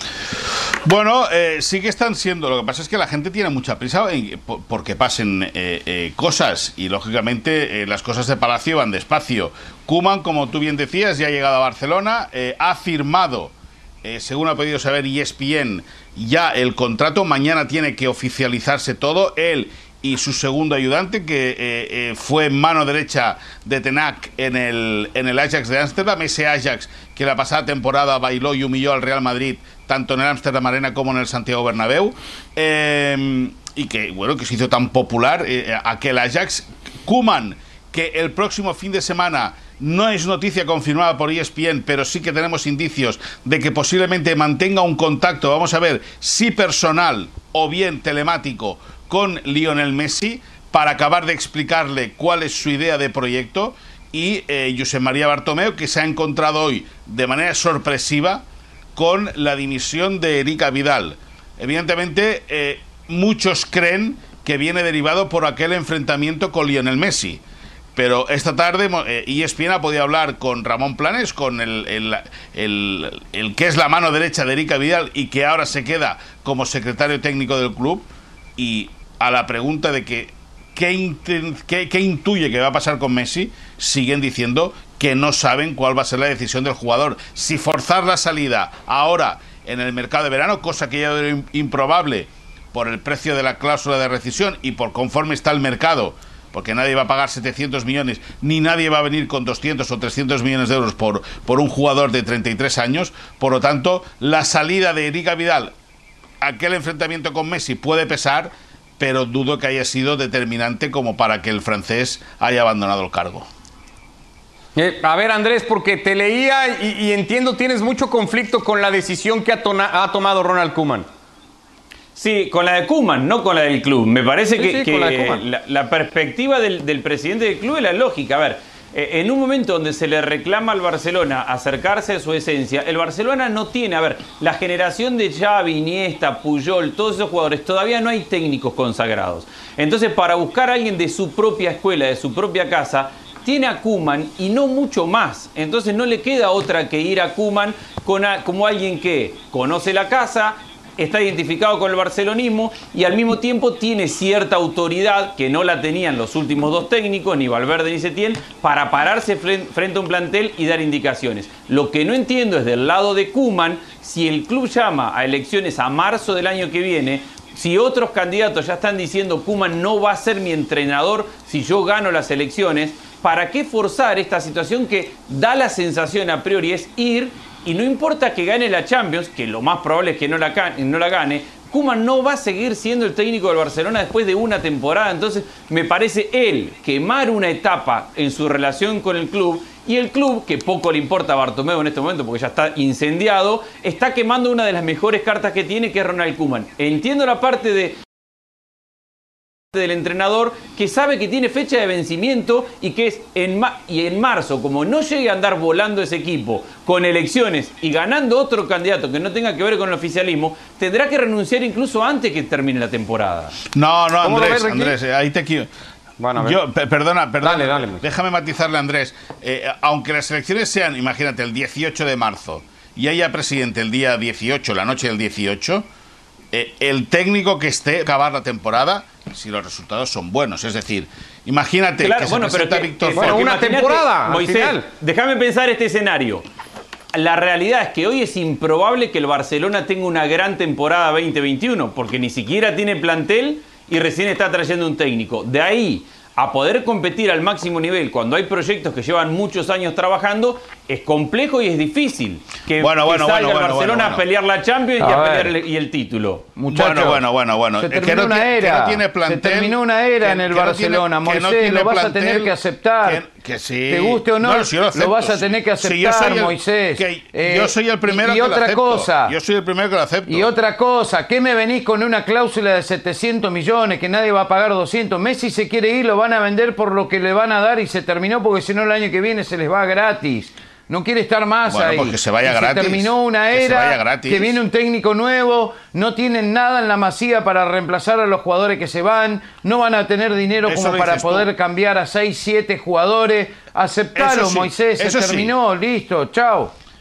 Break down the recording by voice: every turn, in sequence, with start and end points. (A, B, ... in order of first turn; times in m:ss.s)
0:00.8-0:13.5 A
0:14.0-0:58.4 A
0:58.9-1:07.4 A
1:08.0-1:45.7 A
1:46.4-1:53.5 A
1:54.8-2:01.1 B
2:02.2-3:18.0 C
2:04.6-2:05.4 B
3:19.7-3:33.6 C
3:33.7-3:35.7 A
3:34.2-3:34.9 B
3:36.2-3:36.6 B
3:36.4-3:45.8 A
3:37.4-3:38.0 B
3:46.5-3:53.5 A
3:52.0-3:56.4 C
3:53.1-3:54.8 B
3:57.1-4:16.5 C
4:12.8-4:14.2 A
4:15.0-4:15.5 D
4:16.6-4:17.2 D
4:16.7-4:30.5 A
4:17.8-4:23.2 D
4:23.9-4:29.3 D
4:30.2-4:56.7 D
4:41.7-4:44.6 A
4:50.7-4:51.5 A
4:54.1-4:55.5 A